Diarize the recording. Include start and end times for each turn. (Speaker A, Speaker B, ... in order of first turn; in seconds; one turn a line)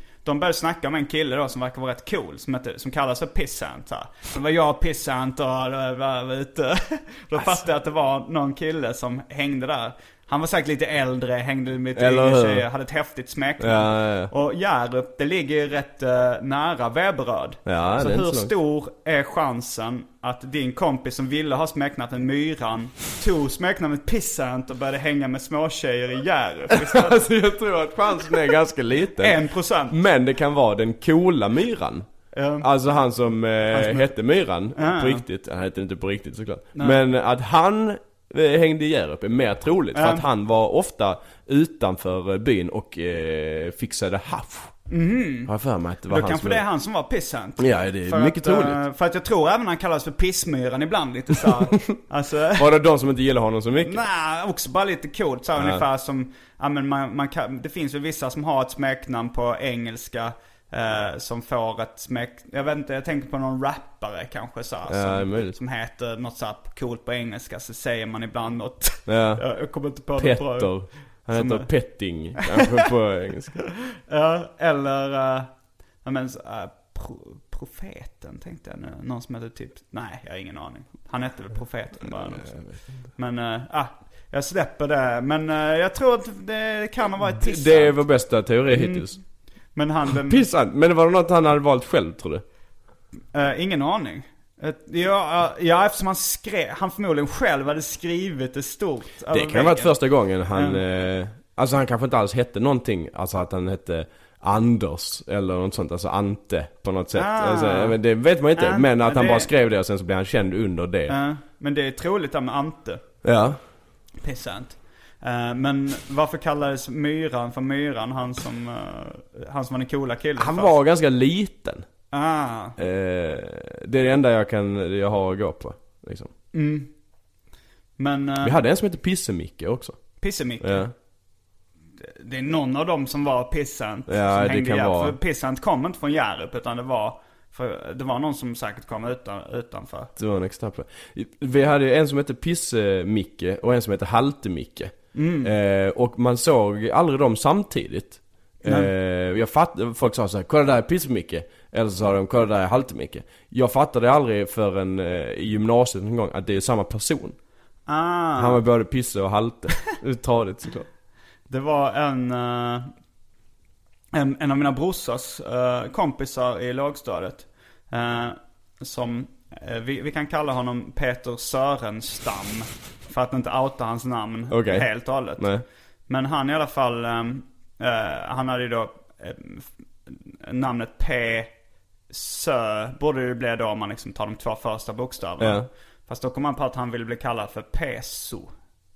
Speaker A: 0.2-27.2
Speaker B: 11.9-12.7
Speaker B: 13.6-14.3
Speaker B: 17.6-18.5
Speaker B: 26.7-32.0
Speaker A: 29.2-29.9
Speaker A: 32.3-32.7
Speaker B: 32.6-44.7
Speaker A: 33.7-34.1
Speaker A: 34.8-35.2
Speaker A: 39.9-40.2
Speaker A: 44.9-45.5
Speaker B: 45.5-46.6
Speaker A: 46.1-52.7
Speaker B: 47.6-48.8
Speaker B: 52.5-54.0
Speaker A: 53.8-71.7
Speaker B: 55.5-55.8
Speaker B: 64.9-65.5
Speaker B: 69.1-69.5
Speaker B: 70.1-73.6
Speaker A: 72.5-72.7
Speaker A: 74.1-75.5
Speaker A: 76.0-82.5
Speaker B: 82.0-82.8
Speaker A: 83.2-88.0
Speaker B: 87.3-89.2
Speaker A: 88.7-89.0
Speaker A: 89.7-90.4
Speaker B: 90.1-92.4
Speaker A: 93.3-99.9
Speaker B: 99.3-111.2
Speaker A: 100.5-100.8
Speaker A: 107.1-107.9
Speaker A: 108.6-109.5
Speaker A: 111.1-113.0
Speaker B: 113.2-113.6
Speaker A: 114.2-120.7
Speaker B: 120.4-121.9
Speaker A: 122.1-122.8
Speaker B: 122.8-126.3
Speaker A: 126.5-126.9
Speaker A: 128.0-128.6
Speaker B: 128.4-130.9
Speaker A: 130.2-130.8
Speaker A: 132.0-140.1
Speaker B: 134.1-135.2
Speaker B: 140.2-157.4
Speaker A: 145.1-145.5
Speaker A: 148.6-148.9
Speaker A: 157.9-158.6
Speaker B: 158.4-160.9
Speaker A: 161.5-162.9
Speaker A: 164.1-175.5
Speaker B: 174.5-175.6
Speaker A: 176.1-181.5
Speaker A: 182.1-188.5
Speaker B: 185.4-185.7